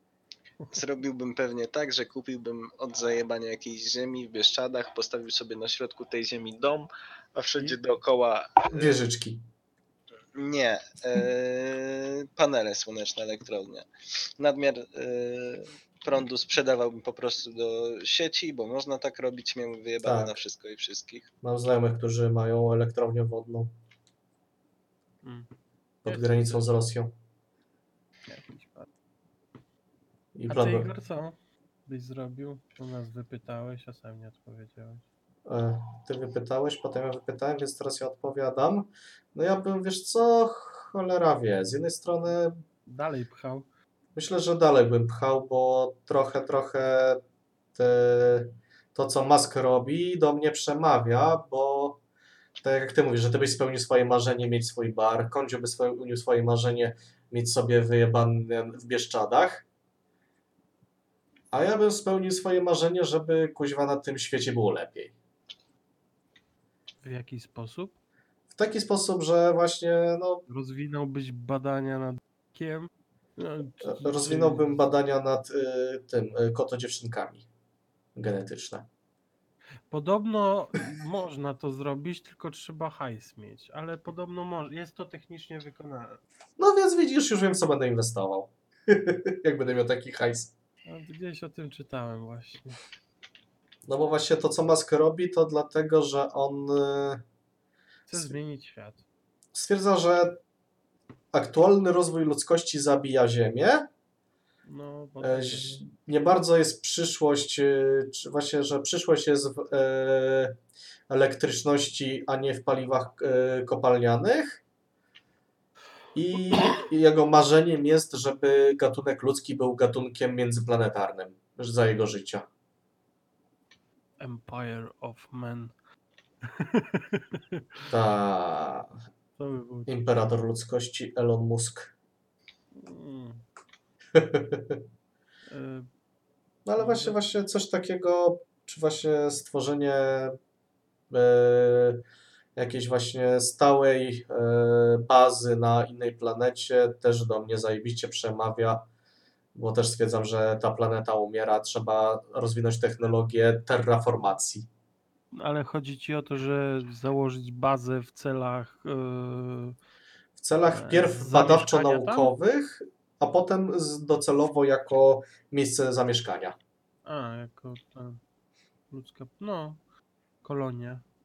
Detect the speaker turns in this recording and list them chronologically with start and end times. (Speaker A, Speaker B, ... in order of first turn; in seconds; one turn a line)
Speaker A: 0.7-9.0
Speaker B: 8.7-9.4
Speaker A: 10.3-21.3
Speaker B: 20.0-20.4
Speaker B: 21.4-23.7
Speaker C: 25.2-25.5
Speaker B: 26.0-27.1
Speaker C: 26.1-26.8
Speaker C: 28.3-28.9
Speaker B: 30.4-30.9
Speaker C: 30.5-35.0
Speaker B: 35.5-42.6
Speaker C: 42.9-43.7
Speaker B: 44.2-47.2
Speaker B: 47.8-52.0
Speaker B: 52.6-59.6
Speaker B: 61.5-65.1
Speaker C: 67.0-68.0
Speaker B: 68.5-70.4
Speaker C: 70.5-74.8
Speaker B: 73.8-77.5
Speaker B: 78.2-78.9
Speaker C: 79.9-86.2
Speaker B: 86.6-90.5
Speaker C: 90.9-92.8
Speaker B: 93.9-97.2
Speaker C: 98.1-99.0
Speaker B: 99.5-100.4
Speaker B: 101.3-103.9
Speaker C: 104.7-105.8
Speaker B: 105.2-110.5
Speaker B: 111.1-114.6
Speaker B: 116.2-122.5
Speaker C: 116.6-116.8
Speaker C: 124.2-125.7
Speaker C: 126.4-127.6
Speaker B: 127.9-128.9
Speaker C: 129.4-130.0
Speaker B: 129.9-131.9
Speaker C: 132.8-133.4
Speaker B: 134.2-134.8
Speaker C: 135.5-135.9
Speaker B: 136.7-140.3
Speaker C: 136.8-137.2
Speaker B: 141.1-142.0
Speaker B: 142.6-148.9
Speaker B: 149.6-154.7
Speaker C: 155.3-159.8
Speaker B: 160.4-166.6
Speaker C: 160.7-162.3
Speaker C: 167.1-168.2
Speaker C: 168.9-169.8
Speaker C: 170.4-171.0